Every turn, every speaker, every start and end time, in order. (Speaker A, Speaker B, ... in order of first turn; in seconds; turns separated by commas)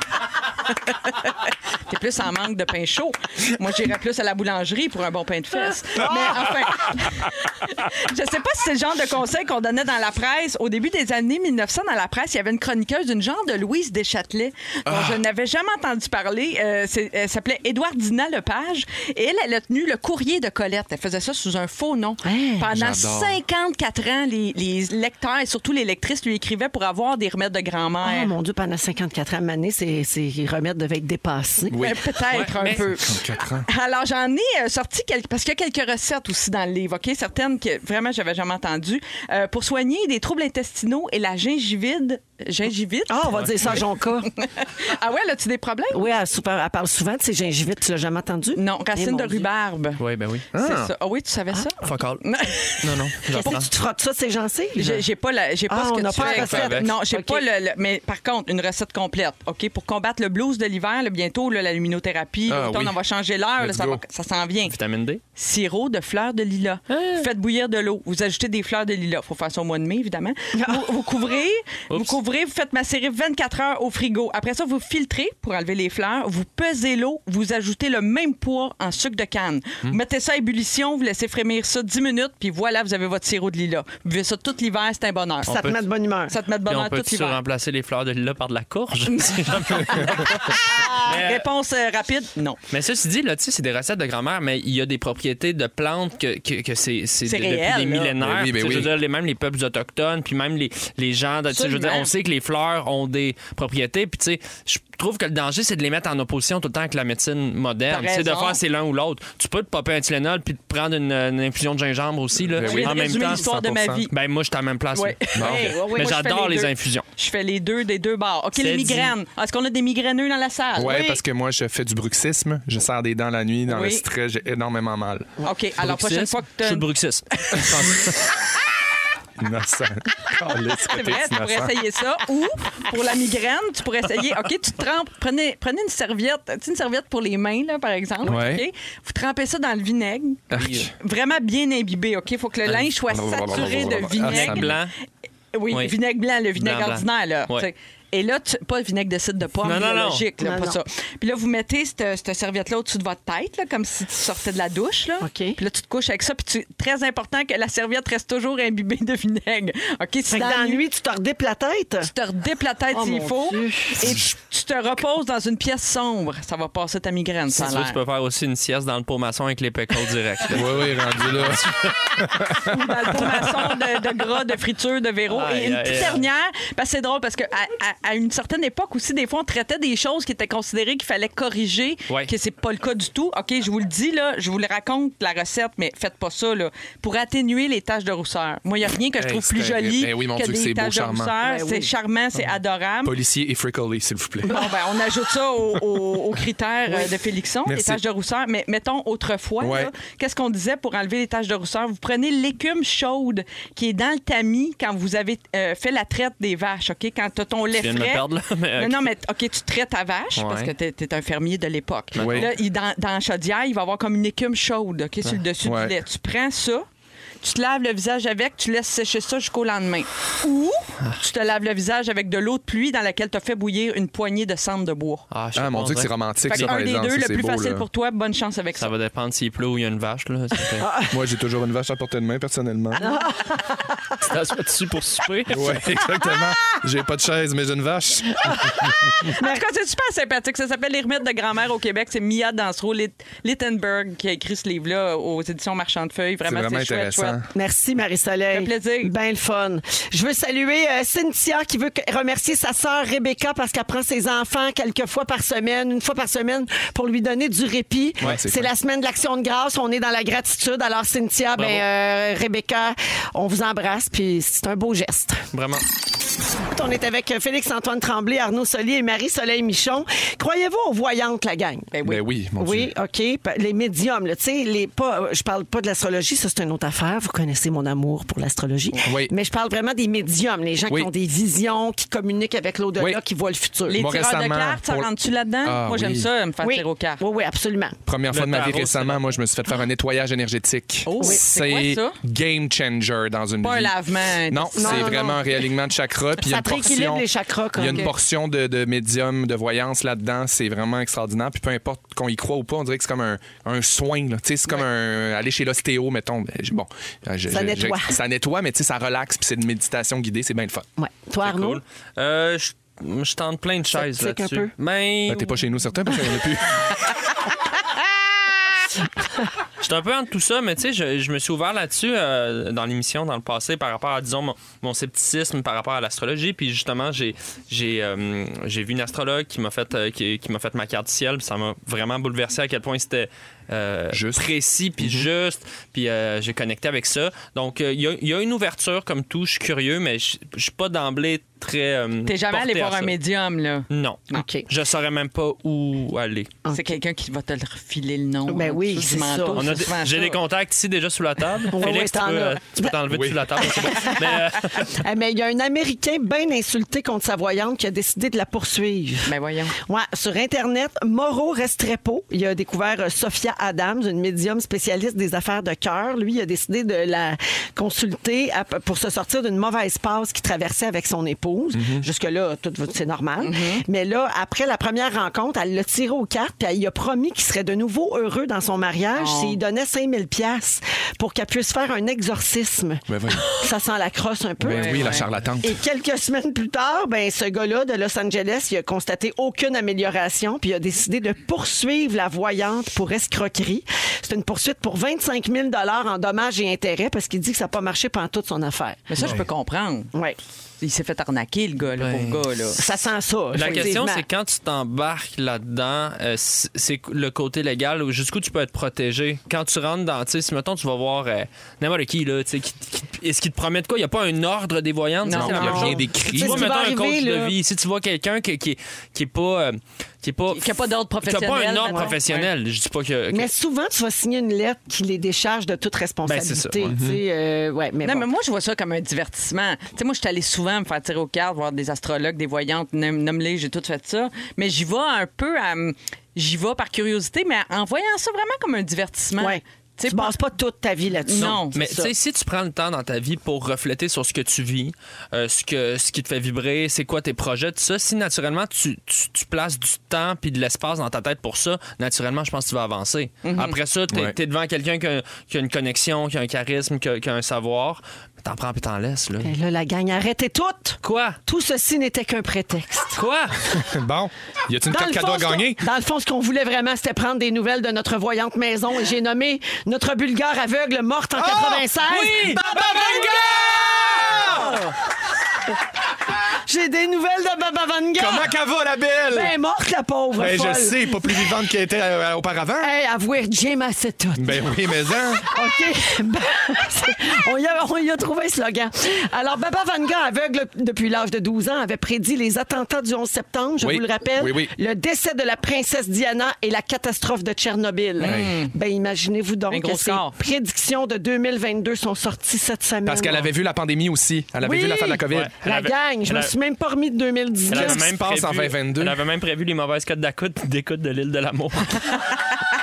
Speaker A: 1.9-28.3, Speaker B: 14.9-15.2, Speaker C: 22.2-22.7, Speaker B: 22.7-23.4, Speaker C: 28.0-31.8, Speaker B: 31.7-33.7, Speaker A: 31.8-43.7, Speaker D: 32.3-32.8, Speaker C: 43.1-44.3, Speaker D: 43.3-43.7, Speaker A: 44.4-46.0, Speaker C: 45.9-49.5, Speaker A: 48.5-50.0, Speaker D: 50.0-50.9, Speaker A: 50.5-53.6, Speaker D: 51.8-53.7, Speaker C: 53.3-55.0, Speaker A: 54.8-64.7, Speaker C: 55.7-57.4, Speaker D: 56.1-56.9, Speaker B: 62.5-63.0, Speaker B: 63.6-64.0, Speaker D: 64.7-65.2, Speaker A: 65.3-85.6, Speaker D: 66.9-67.3, Speaker C: 70.5-70.8, Speaker D: 71.9-72.2, Speaker D: 85.5-85.8, Speaker C: 85.5-86.3, Speaker A: 86.3-87.4, Speaker D: 86.7-91.5, Speaker A: 89.1-92.6, Speaker D: 92.7-113.4, Speaker A: 97.2-98.1, Speaker B: 98.2-98.9, Speaker A: 101.5-102.1, Speaker A: 107.9-108.6, Speaker B: 112.5-114.1, Speaker A: 112.6-114.1, Speaker D: 114.1-117.0, Speaker A: 114.9-121.2, Speaker B: 115.4-115.8, Speaker C: 115.5-116.1, Speaker D: 118.6-119.1, Speaker B: 120.8-125.3, Speaker A: 123.7-124.0, Speaker A: 125.4-126.9, Speaker D: 125.8-128.2, Speaker B: 129.4-131.7, Speaker A: 130.9-144.8, Speaker B: 138.2-138.7, Speaker B: 140.5-140.9, Speaker D: 140.6-140.8, Speaker B: 143.1-144.7, Speaker D: 144.2-144.9, Speaker A: 145.5-160.8, Speaker D: 146.6-147.7, Speaker D: 149.6-150.2, Speaker C: 150.4-150.8, Speaker C: 155.2-155.6, Speaker C: 160.3-162.1, Speaker A: 162.0-168.0, Speaker C: 162.9-164.2, Speaker D: 167.5-172.1, Speaker B: 170.5-171.6, Speaker B: 172.2-173.4, Speaker A: 172.7-193.1, Speaker D: 175.3-176.2, Speaker B: 189.2-191.3, Speaker C: 191.4-191.9, Speaker B: 193.0-194.7, Speaker A: 194.5-216.8, Speaker B: 197.7-198.0, Speaker B: 199.6-199.9, Speaker D: 207.7-209.1, Speaker D: 210.4-210.7, Speaker D: 212.1-212.5, Speaker B: 212.2-212.5, Speaker B: 215.6-215.9, Speaker A: 217.4-225.2, Speaker D: 225.3-226.8, Speaker B: 225.5-227.8, Speaker A: 226.5-228.9, Speaker D: 228.8-230.9, Speaker C: 230.8-231.2, Speaker B: 231.1-233.0, Speaker C: 233.0-233.9, Speaker D: 234.2-235.9, Speaker B: 235.5-239.3, Speaker A: 239.4-247.4, Speaker B: 246.4-247.4, Speaker C: 247.5-265.4, Speaker A: 248.5-249.1, Speaker B: 258.2-258.7, Speaker D: 261.6-261.8, Speaker D: 265.5-265.8, Speaker C: 266.7-271.9, Speaker A: 271.9-272.2, Speaker B: 272.0-272.9, Speaker C: 272.6-284.0, Speaker B: 279.0-279.3, Speaker A: 283.9-287.2, Speaker B: 283.9-285.1, Speaker B: 285.6-286.3, Speaker C: 286.6-288.0, Speaker B: 288.1-310.9, Speaker D: 288.3-289.3, Speaker A: 291.1-292.2, Speaker A: 293.6-295.4, Speaker C: 294.8-295.4, Speaker C: 296.4-298.1, Speaker A: 297.9-298.1, Speaker C: 307.5-308.1, Speaker C: 311.0-311.8, Speaker D: 311.4-315.6, Speaker C: 313.9-314.7, Speaker B: 315.3-317.0, Speaker D: 319.8-343.1, Speaker B: 334.1-334.4, Speaker B: 335.0-335.3, Speaker A: 342.2-344.4, Speaker D: 343.9-346.5, Speaker C: 344.3-344.6, Speaker C: 346.6-346.9, Speaker A: 346.7-350.4, Speaker C: 348.5-349.9, Speaker D: 349.5-355.0, Speaker C: 351.7-352.9, Speaker B: 353.1-353.5, Speaker C: 353.6-399.0, Speaker A: 359.2-359.8, Speaker B: 371.7-372.0, Speaker A: 373.4-373.8, Speaker A: 379.1-379.6, Speaker B: 383.1-383.5, Speaker B: 384.6-385.7, Speaker A: 384.6-385.3, Speaker A: 399.1-400.1, Speaker A: 400.8-402.8, Speaker D: 402.0-402.4, Speaker C: 402.8-404.2, Speaker D: 403.5-423.5, Speaker A: 415.2-416.1, Speaker B: 415.3-416.7, Speaker C: 415.6-417.5, Speaker A: 420.5-422.5, Speaker C: 421.8-422.1, Speaker C: 423.3-428.3, Speaker D: 426.2-426.9, Speaker B: 426.8-427.2, Speaker A: 428.0-440.4, Speaker C: 439.4-442.1, Speaker A: 441.2-441.8, Speaker D: 441.7-459.5, Speaker A: 453.4-453.8, Speaker B: 454.1-454.3, Speaker C: 459.4-463.2, Speaker D: 461.0-461.4, Speaker D: 463.1-463.5, Speaker B: 463.7-465.8, Speaker C: 464.9-473.3, Speaker B: 471.4-474.8, Speaker C: 474.2-474.9, Speaker C: 476.6-478.5, Speaker B: 478.2-479.5, Speaker C: 479.3-481.4, Speaker B: 480.4-482.9, Speaker C: 482.8-484.6, Speaker B: 484.4-485.5, Speaker C: 485.4-503.5, Speaker B: 493.8-494.7, Speaker A: 498.2-498.7, Speaker B: 498.2-498.5, Speaker A: 499.7-500.3, Speaker B: 503.1-505.5, Speaker C: 504.6-508.0, Speaker D: 505.3-506.5, Speaker D: 507.7-512.2, Speaker B: 507.7-509.2